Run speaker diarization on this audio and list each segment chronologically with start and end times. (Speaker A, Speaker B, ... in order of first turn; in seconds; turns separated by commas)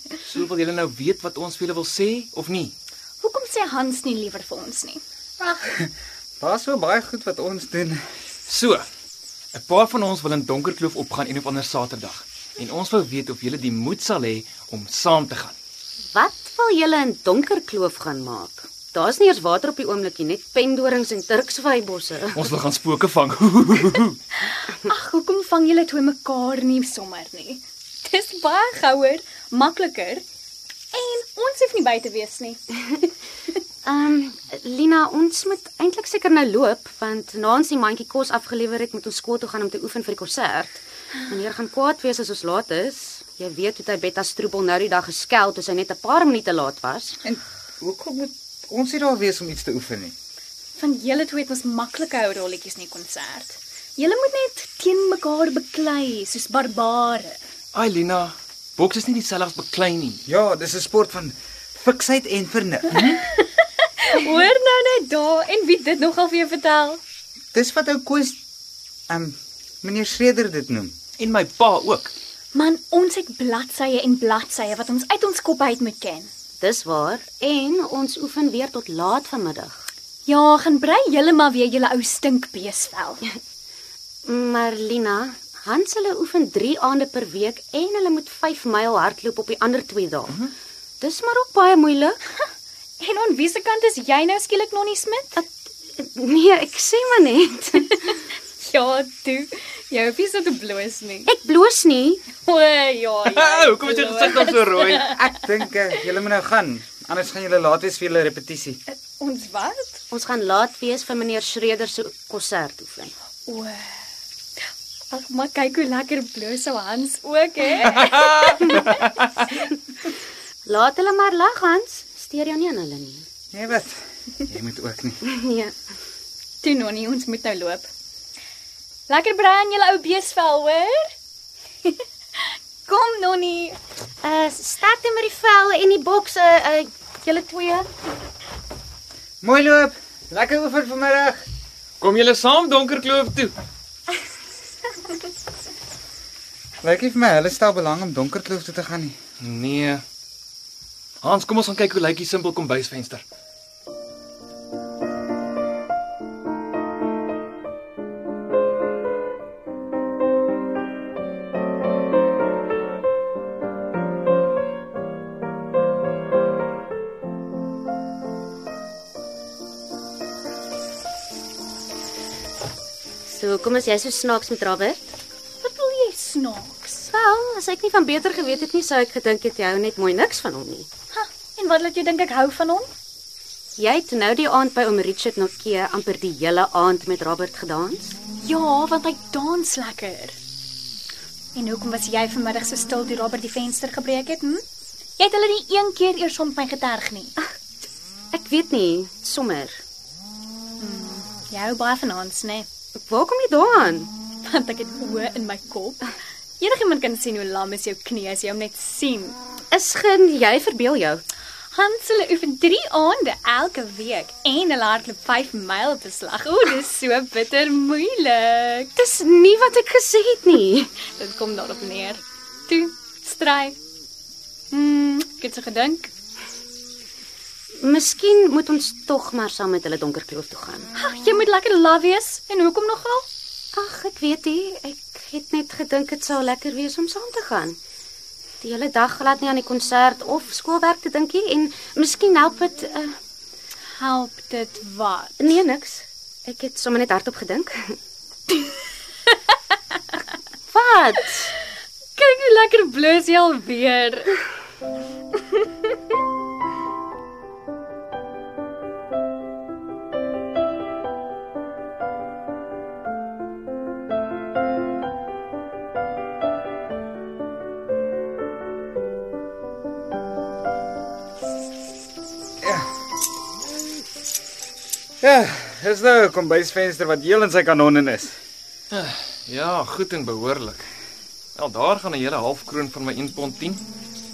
Speaker A: 0.2-2.7, Speaker B: 3.2-5.0, Speaker C: 5.4-5.9, Speaker C: 6.4-8.0, Speaker A: 8.5-8.8, Speaker A: 9.5-15.6, Speaker D: 16.1-22.4, Speaker A: 22.3-24.2, Speaker B: 24.9-30.2, Speaker B: 30.9-32.6, Speaker D: 33.9-47.2, Speaker C: 47.2-50.1, Speaker B: 50.8-57.4, Speaker A: 57.7-60.2, Speaker C: 60.2-63.2, Speaker B: 64.0-67.0, Speaker C: 67.5-68.4, Speaker C: 69.1-70.9, Speaker A: 71.2-72.1, Speaker B: 72.5-76.3, Speaker D: 76.6-79.8, Speaker B: 80.2-83.2, Speaker D: 84.2-90.3, Speaker D: 91.0-92.2, Speaker B: 93.0-95.4, Speaker D: 96.0-97.8, Speaker B: 98.1-101.3, Speaker D: 101.3-102.2, Speaker B: 102.4-105.3, Speaker A: 103.3-105.1, Speaker C: 105.2-108.8, Speaker B: 109.2-110.0, Speaker D: 110.1-113.1, Speaker B: 113.5-113.8, Speaker B: 115.1-119.0, Speaker A: 118.0-119.0, Speaker D: 120.7-123.3, Speaker C: 123.6-124.0, Speaker C: 124.5-125.2, Speaker D: 125.3-125.7, Speaker B: 126.6-127.9, Speaker B: 129.1-131.1, Speaker B: 132.8-133.8, Speaker D: 134.2-137.9, Speaker C: 139.4-141.4, Speaker A: 142.0-143.5, Speaker C: 146.8-149.1, Speaker A: 149.4-150.0, Speaker A: 151.2-153.2, Speaker D: 173.3-175.1, Speaker B: 175.6-177.1, Speaker D: 177.1-180.9, Speaker B: 181.1-182.9, Speaker D: 183.8-188.2, Speaker B: 188.4-190.3, Speaker B: 191.5-194.6, Speaker B: 195.2-197.3, Speaker D: 198.3-199.7, Speaker B: 200.8-202.7, Speaker D: 203.1-204.1, Speaker B: 204.4-209.4, Speaker D: 209.7-211.2, Speaker B: 211.7-218.9, Speaker D: 219.0-220.9, Speaker B: 221.2-223.8, Speaker B: 224.7-226.1, Speaker D: 227.8-230.9, Speaker B: 230.9-233.3, Speaker D: 233.7-237.8, Speaker D: 238.6-243.2, Speaker B: 244.0-245.5, Speaker D: 245.4-248.0, Speaker D: 250.7-251.5, Speaker B: 252.2-254.4, Speaker C: 275.2-278.4, Speaker A: 278.9-280.9, Speaker A: 281.6-283.8